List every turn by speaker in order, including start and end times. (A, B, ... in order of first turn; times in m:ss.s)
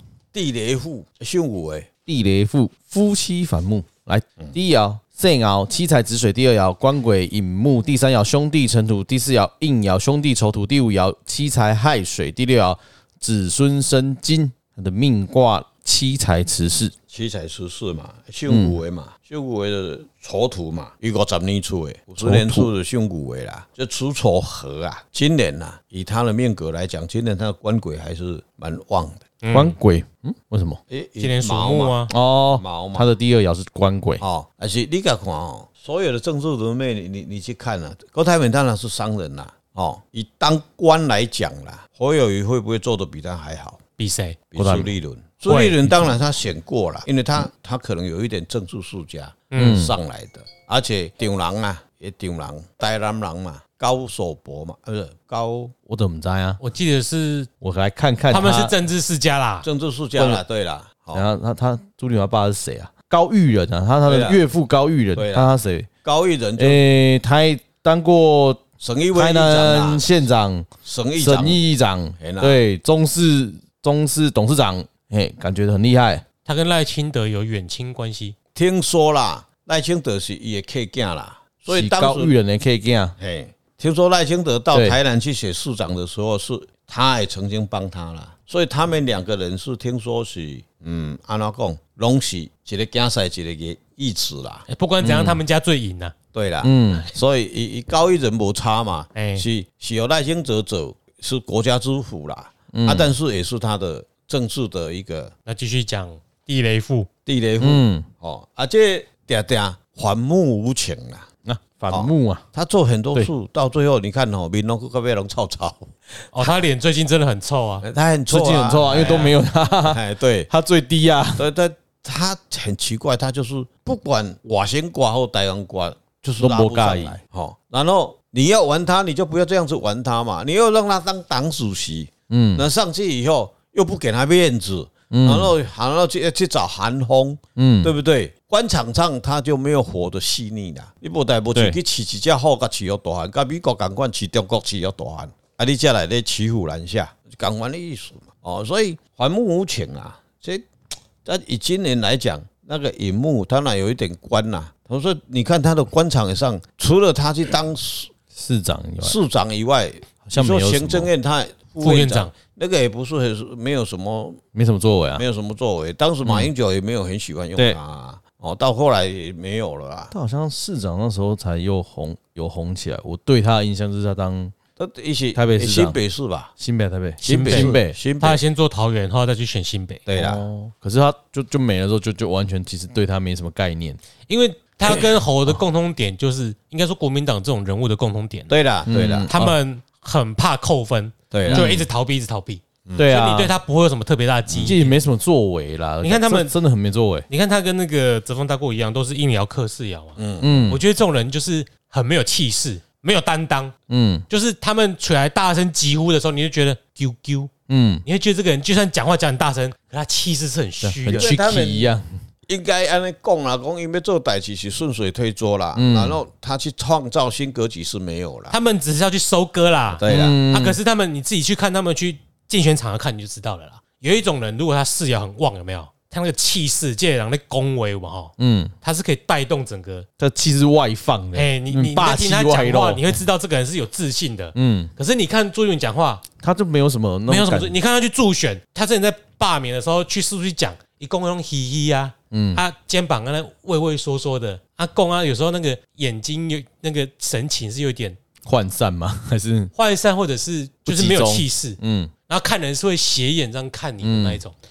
0:00.3-0:01.9 A
0:02.1-0:16.9 B
0:17.1-0:29.2 A
0:18.5-0:18.8 B
0:22.2-0:22.7 B
0:29.4-0:29.8 C
0:29.5-0:30.8 B
0:30.9-0:33.1 A
0:31.2-0:32.1 C
0:32.1-0:34.2 B
0:34.2-0:43.8 A
0:44.0-0:44.4 C
0:44.5-0:55.7 A
0:44.6-0:45.0 B
0:45.5-0:45.9 C
0:49.5-0:49.8 C
0:49.6-0:50.0 B
0:55.9-0:56.6 B
0:56.6-0:57.5 C
0:57.6-0:58.8 B
0:58.3-0:59.7 C
0:59.6-1:01.3 A
1:00.2-1:00.4 B
1:01.1-1:05.9 B
1:04.1-1:04.4 A
1:05.2-1:06.8 A
1:06.6-1:08.6 B
1:08.8-1:10.0 A
1:09.1-1:16.2 B
1:10.8-1:11.6 A
1:12.2-1:12.6 A
1:16.5-1:18.4 C
1:18.6-1:22.3 A
1:21.7-1:23.1 B
1:23.2-1:34.6 A
1:24.7-1:25.0 B
1:34.7-1:36.2 C
1:35.0-1:35.4 B
1:36.3-1:45.3 A
1:36.6-1:37.1 B
1:39.2-1:39.5 C
1:42.7-1:43.1 B
1:45.5-1:47.1 C
1:47.3-1:51.3 A
1:47.6-1:48.1 B
1:51.4-1:52.4 B
1:51.9-1:56.6 A
1:56.3-1:57.8 C
1:57.8-1:59.3 A
1:58.3-2:01.5 B
1:58.9-1:59.3 C
1:59.8-2:00.5 A
2:01.4-2:30.7 A
2:06.4-2:07.2 B
2:12.3-2:12.7 B
2:15.1-2:15.5 B
2:17.6-2:17.9 B
2:31.2-2:38.1 A
2:38.3-2:39.2 B
2:39.0-2:44.4 A
2:40.3-2:41.1 B
2:41.8-2:42.3 C
2:44.6-2:45.2 B
2:45.2-2:50.1 A
2:46.2-2:46.5 B
2:50.1-2:54.6 B
2:54.8-2:56.5 A
2:55.4-2:56.0 B
2:56.6-2:58.0 B
2:57.2-3:00.0 C
2:57.5-2:58.4 A
3:00.1-3:00.4 A
3:00.1-3:04.0 B
3:04.3-3:08.5 C
3:08.5-3:09.3 A
3:08.9-3:09.6 B
3:09.3-3:15.0 C
3:11.3-3:11.8 A
3:11.5-3:11.8 B
3:13.0-3:13.5 B
3:14.5-3:14.8 A
3:14.6-3:17.3 B
3:16.0-3:16.6 C
3:17.3-3:23.8 C
3:20.2-3:20.7 A
3:20.4-3:20.8 B
3:23.9-3:24.2 B
3:24.3-3:27.5 C
3:27.7-3:28.0 B
3:28.1-3:31.3 C
3:30.8-3:32.2 B
3:31.1-3:31.9 A
3:32.5-3:38.6 A
3:35.8-3:36.2 B
3:38.5-3:50.1 C
3:40.0-3:40.4 A
3:40.1-3:40.8 B
3:48.4-3:48.7 B
3:50.2-3:53.2 B
3:51.3-3:56.2 C
3:54.6-3:54.9 B
3:56.4-3:57.8 B
3:57.3-4:08.2 C
4:02.3-4:02.6 B
4:08.4-4:09.7 B
4:09.8-4:14.6 C
4:10.9-4:12.1 B
4:14.0-4:14.4 B